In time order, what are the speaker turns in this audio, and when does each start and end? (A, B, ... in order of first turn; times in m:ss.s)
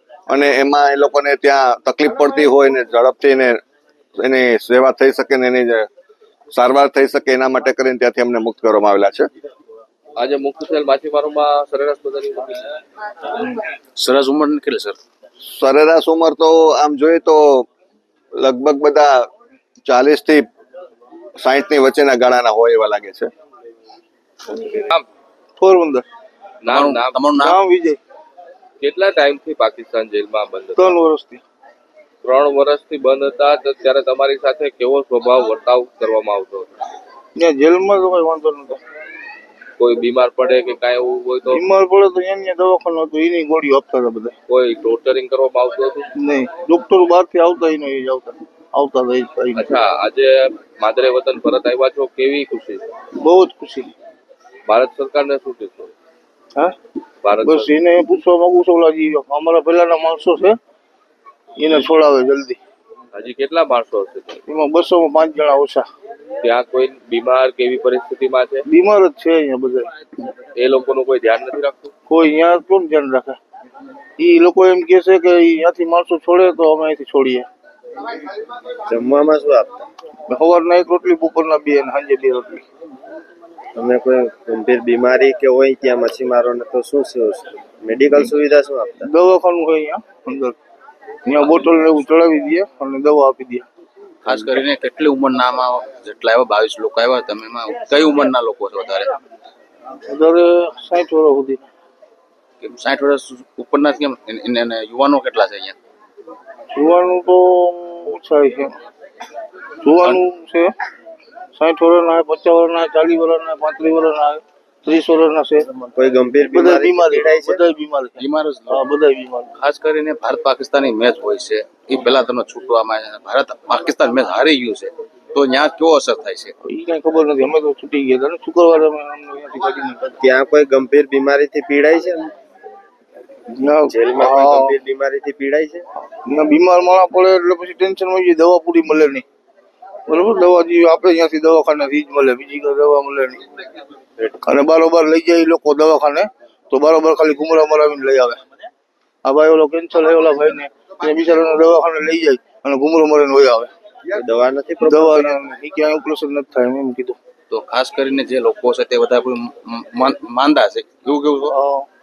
0:00.3-0:03.6 A
0:04.2-0:05.9 A
0:06.5-0:09.3 A
0:10.2-0:12.8 B
0:13.4-0:15.0 C
0:15.4-0:17.7 A
0:18.4-0:19.3 A
0:19.8-0:20.4 A
0:21.4-0:23.3 A
0:24.5-0:25.0 B
0:25.6-0:26.0 D
0:26.6-0:27.2 B
0:26.6-0:27.6 C
0:27.4-0:28.0 D
0:28.8-0:30.9 B
0:30.8-0:31.4 D
0:32.2-0:36.8 B
0:37.4-0:38.8 D
0:39.8-0:41.6 B
0:41.5-0:44.3 D
0:44.5-0:46.1 B
0:46.2-0:49.7 D
0:49.5-0:52.8 B
0:53.2-0:53.9 D
0:54.6-0:55.9 B
0:57.2-0:57.7 B
0:57.4-1:00.5 D
1:01.6-1:02.6 D
1:03.1-1:04.4 B
1:04.5-1:05.8 D
1:06.4-1:08.6 B
1:08.7-1:09.9 D
1:10.5-1:11.9 B
1:12.1-1:13.4 D
1:14.2-1:17.4 D
1:18.9-1:19.8 E
1:20.3-1:22.6 D
1:23.7-1:29.1 E
1:29.2-1:30.5 D
1:31.2-1:33.6 D
1:31.4-1:31.7 C
1:34.2-1:39.2 C
1:40.1-1:41.6 D
1:42.6-1:45.8 C
1:46.7-1:48.7 D
1:49.8-1:50.6 D
1:50.0-1:50.3 C
1:51.6-1:55.6 D
1:55.7-1:57.6 E
1:56.5-1:58.1 D
1:58.2-1:58.9 C
1:58.7-1:59.4 D
1:59.5-2:06.5 C
2:06.7-2:10.1 D
2:10.2-2:12.3 E
2:13.5-2:14.7 D
2:13.9-2:15.9 E
2:16.3-2:19.2 D
2:20.1-2:23.4 D
2:24.4-2:28.3 D
2:29.3-2:33.7 D
2:34.1-2:35.4 E
2:34.8-2:37.1 D
2:37.5-2:41.6 C
2:41.5-2:41.9 D